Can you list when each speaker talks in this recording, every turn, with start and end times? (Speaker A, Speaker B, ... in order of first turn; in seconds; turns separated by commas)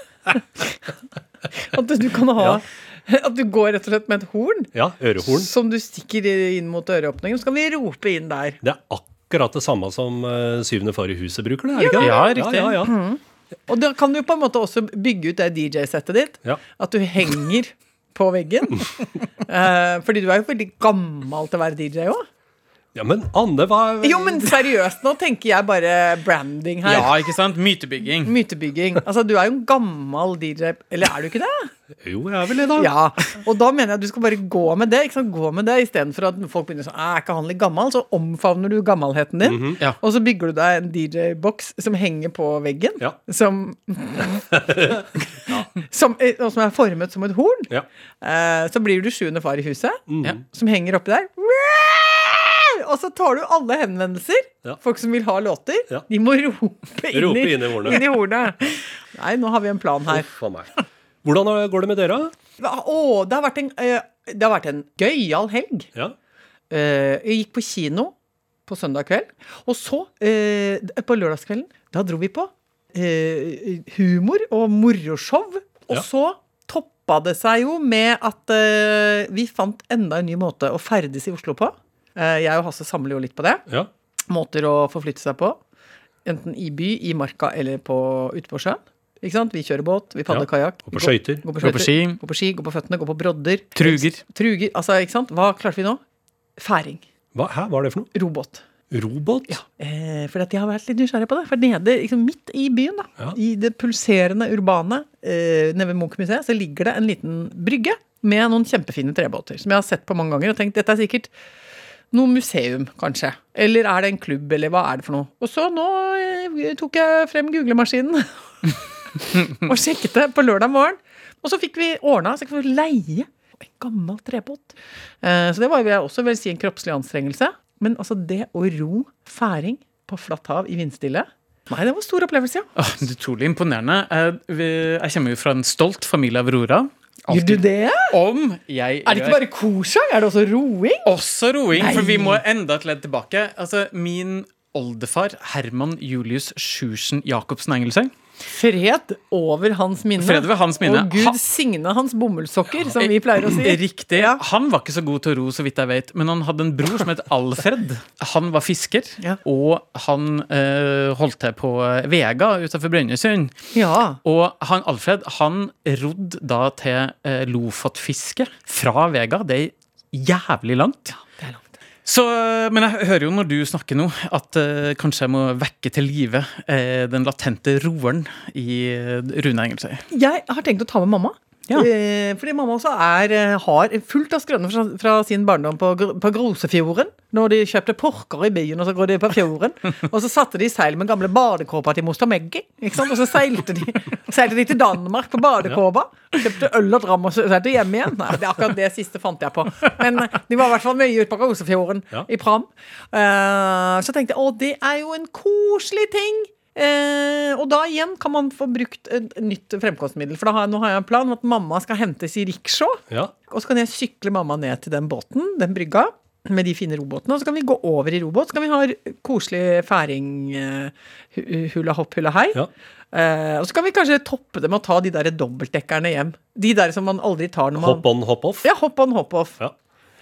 Speaker A: 1.6-4.7, Speaker B: 4.7-5.5, Speaker A: 5.2-8.6, Speaker B: 8.6-12.9, Speaker A: 11.7-18.9, Speaker C: 12.0-12.8, Speaker A: 19.4-22.2, Speaker B: 22.9-24.6, Speaker A: 24.0-27.1, Speaker C: 26.8-28.3, Speaker A: 28.2-31.7, Speaker B: 32.0-32.9, Speaker A: 32.8-44.5, Speaker B: 39.4-39.8, Speaker B: 44.5-45.7, Speaker A: 45.7-47.7, Speaker A: 48.2-60.3, Speaker B: 50.1-50.4, Speaker B: 57.1-58.0, Speaker B: 60.1-60.7, Speaker B: 61.2-62.3, Speaker A: 62.6-65.9, Speaker A: 66.7-68.1, Speaker A: 68.7-83.6, Speaker A: 84.3-85.6, Speaker A: 86.2-96.0, Speaker B: 90.3-91.4, Speaker C: 91.6-92.2, Speaker C: 93.8-94.2, Speaker A: 96.6-97.0, Speaker B: 97.3-98.1, Speaker A: 98.1-98.6, Speaker B: 98.9-99.6, Speaker A: 99.5-111.3, Speaker A: 112.1-118.7, Speaker A: 119.3-132.7, Speaker C: 132.8-139.4, Speaker A: 137.3-138.1, Speaker A: 139.1-141.1, Speaker C: 141.0-148.1, Speaker A: 141.7-142.4, Speaker A: 148.5-154.4, Speaker C: 150.2-151.4, Speaker C: 152.9-163.5, Speaker A: 163.7-164.2, Speaker C: 164.2-171.2, Speaker A: 171.4-171.6, Speaker C: 172.0-180.0, Speaker A: 180.1-222.6, Speaker A: 223.1-228.0, Speaker B: 227.8-228.7, Speaker A: 228.6-229.6